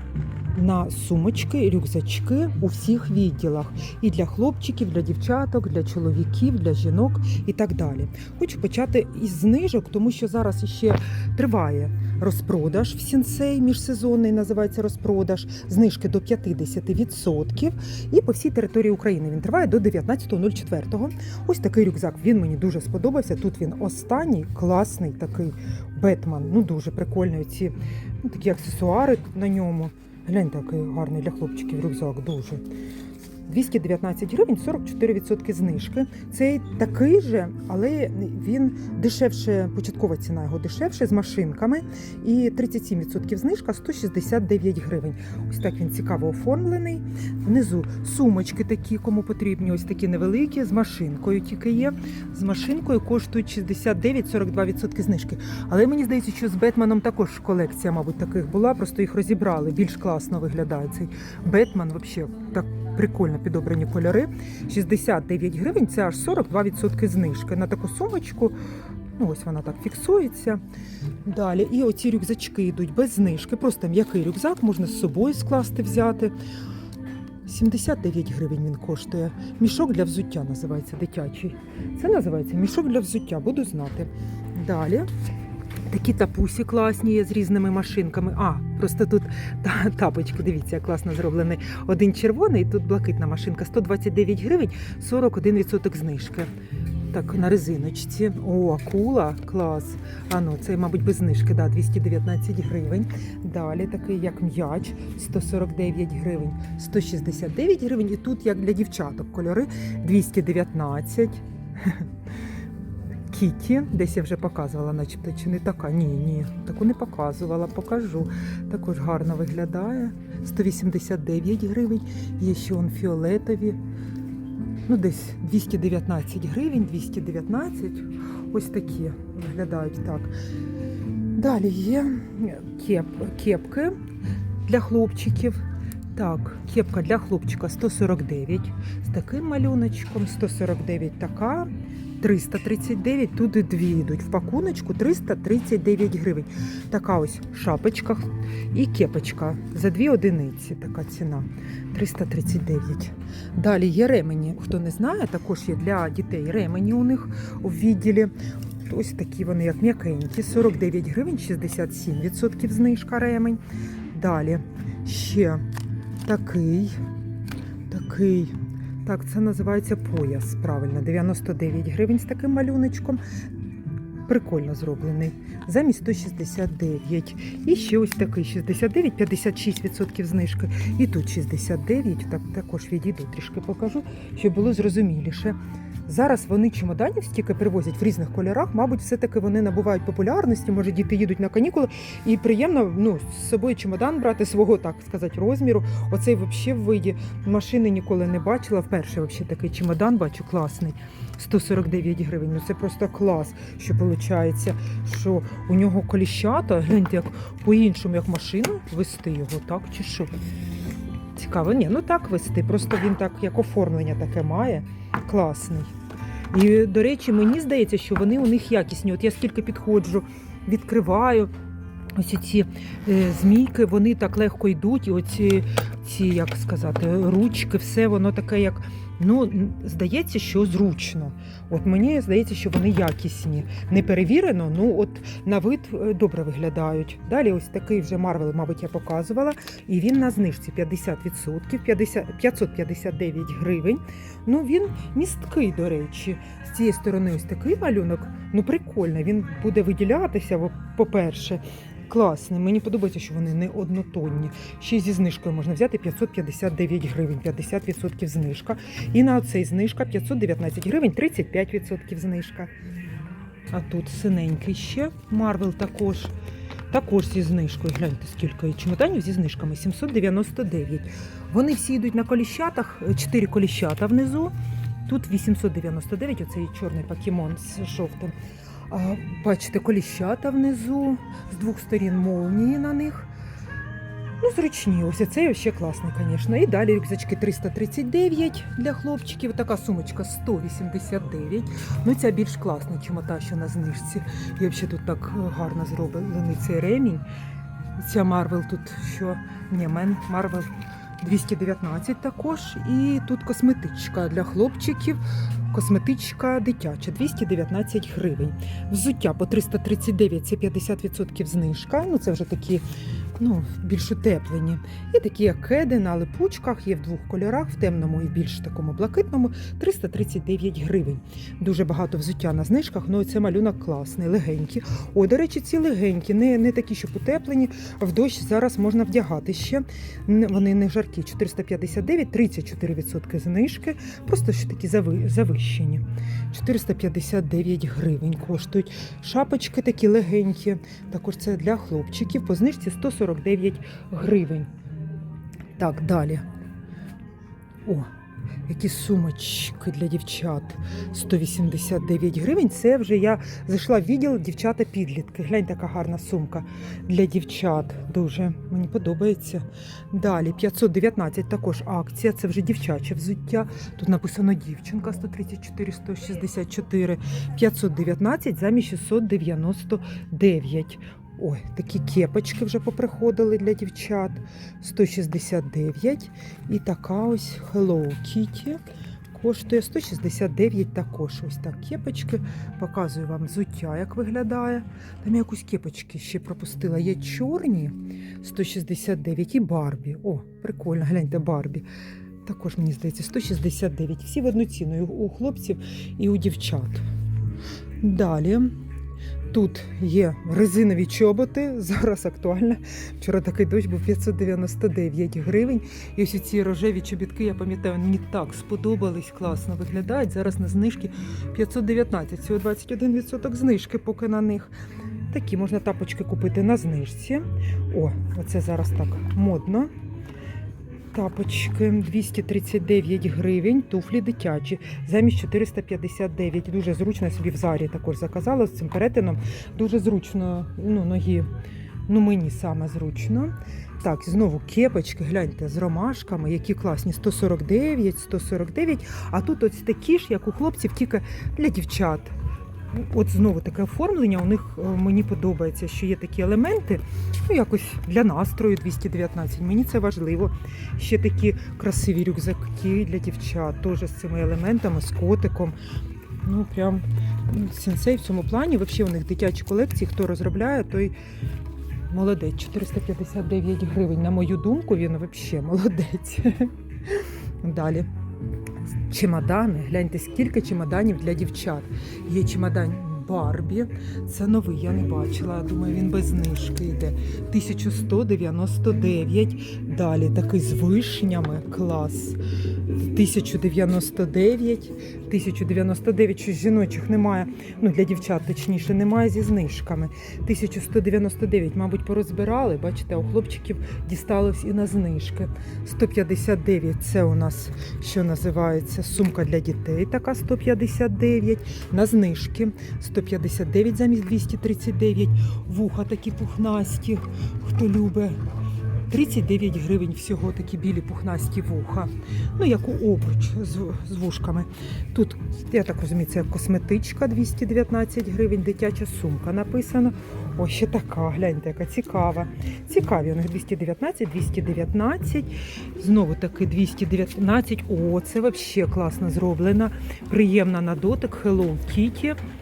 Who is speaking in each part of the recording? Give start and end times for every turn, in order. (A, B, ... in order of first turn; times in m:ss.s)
0:00.5-0:32.6 A
0:33.5-1:08.5 A
1:09.2-1:10.6 A
1:11.2-1:16.3 A
1:17.4-1:25.1 A
1:25.9-1:36.5 A
1:37.1-1:52.1 A
1:53.3-2:03.8 A
2:04.9-2:10.3 A
2:11.3-2:13.9 A
2:14.7-2:15.6 A
2:16.1-2:38.3 A
2:38.9-2:43.6 A
2:44.1-2:45.6 A
2:46.2-2:47.0 A
2:47.9-2:53.2 A
2:54.3-3:30.3 A
3:31.3-3:35.9 A
3:36.5-3:41.5 A
3:42.2-4:22.7 A
4:23.7-4:26.3 A
4:26.9-4:34.5 A
4:35.0-4:38.3 A
4:38.9-4:43.3 A
4:44.4-4:57.2 A
4:58.0-5:00.7 A
5:01.2-5:12.8 A
5:13.4-5:44.7 A
5:45.8-5:46.4 A
5:48.7-6:18.8 A
6:19.3-6:31.8 A
6:32.4-6:37.0 A
6:38.0-6:38.7 A
6:39.5-6:54.7 A
6:55.3-6:59.9 A
7:01.1-7:11.5 A
7:12.1-7:22.3 A
7:22.9-7:35.7 A
7:36.4-7:41.1 A
7:42.1-7:48.1 A
7:49.1-8:02.4 A
8:03.0-8:28.4 A
8:29.1-8:52.4 A